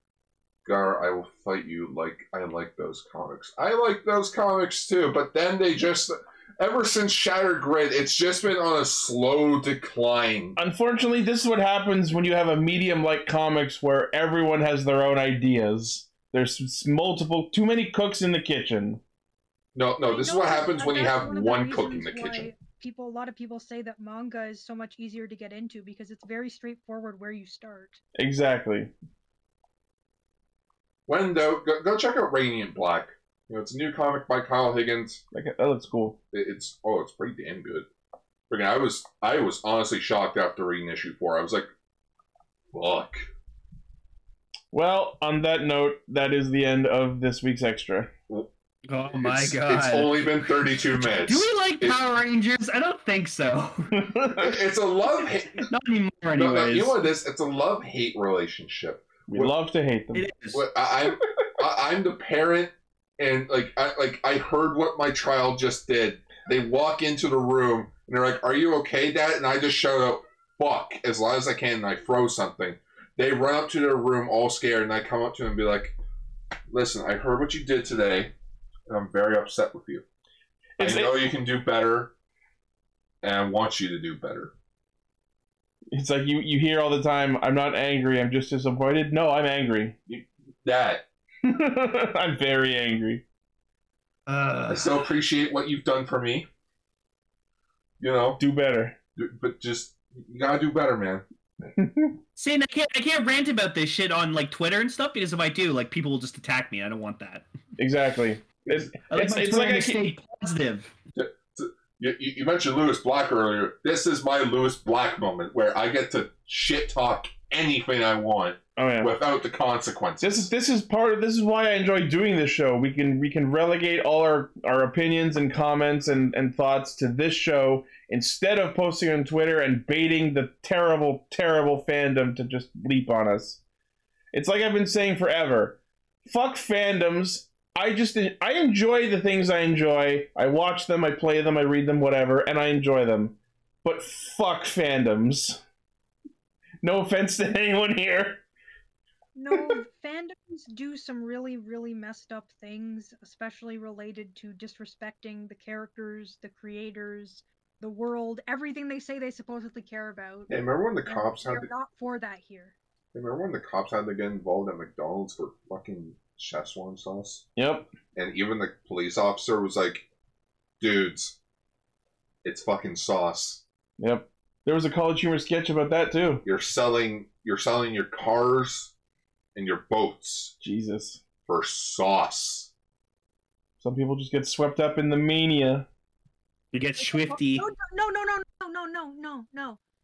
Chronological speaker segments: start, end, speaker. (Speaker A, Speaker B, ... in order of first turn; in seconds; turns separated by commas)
Speaker A: 0.7-10.6, Speaker B: 10.6-19.0, Speaker A: 19.7-22.6, Speaker C: 20.1-28.0, Speaker B: 28.2-28.9, Speaker A: 31.1-35.2, Speaker B: 35.3-36.2, Speaker A: 36.3-37.9, Speaker A: 38.5-41.7, Speaker A: 42.7-43.2, Speaker B: 44.7-48.1, Speaker D: 48.9-50.3, Speaker A: 49.1-52.0, Speaker D: 51.0-54.0, Speaker B: 53.9-54.6, Speaker A: 54.4-55.7, Speaker D: 55.6-57.0, Speaker A: 56.3-59.5, Speaker B: 59.3-60.2, Speaker D: 60.1-60.6, Speaker A: 60.5-76.0, Speaker A: 76.7-78.3, Speaker A: 78.9-80.0, Speaker B: 80.8-81.2, Speaker A: 80.8-82.1, Speaker A: 83.2-84.5, Speaker B: 85.9-90.0, Speaker A: 90.1-91.0, Speaker B: 91.4-93.2, Speaker D: 94.3-95.0, Speaker A: 94.7-96.5, Speaker A: 98.0-98.4, Speaker B: 98.4-99.0, Speaker A: 99.2-101.2, Speaker B: 101.8-102.2, Speaker D: 102.3-107.5, Speaker B: 107.8-110.0, Speaker D: 109.1-110.9, Speaker A: 111.1-120.5, Speaker B: 118.8-119.1, Speaker B: 120.2-133.6, Speaker B: 134.3-145.6, Speaker B: 146.8-148.4, Speaker C: 149.3-162.7, Speaker B: 149.5-149.8, Speaker A: 160.5-161.7, Speaker A: 163.1-167.4, Speaker B: 167.6-167.9, Speaker A: 168.1-170.1, Speaker A: 170.8-171.3, Speaker A: 172.4-173.6, Speaker B: 174.0-176.4, Speaker A: 176.4-178.9, Speaker A: 179.5-180.5, Speaker B: 180.6-181.2, Speaker A: 181.4-182.7, Speaker B: 183.8-185.9, Speaker D: 186.7-187.6, Speaker C: 187.0-189.8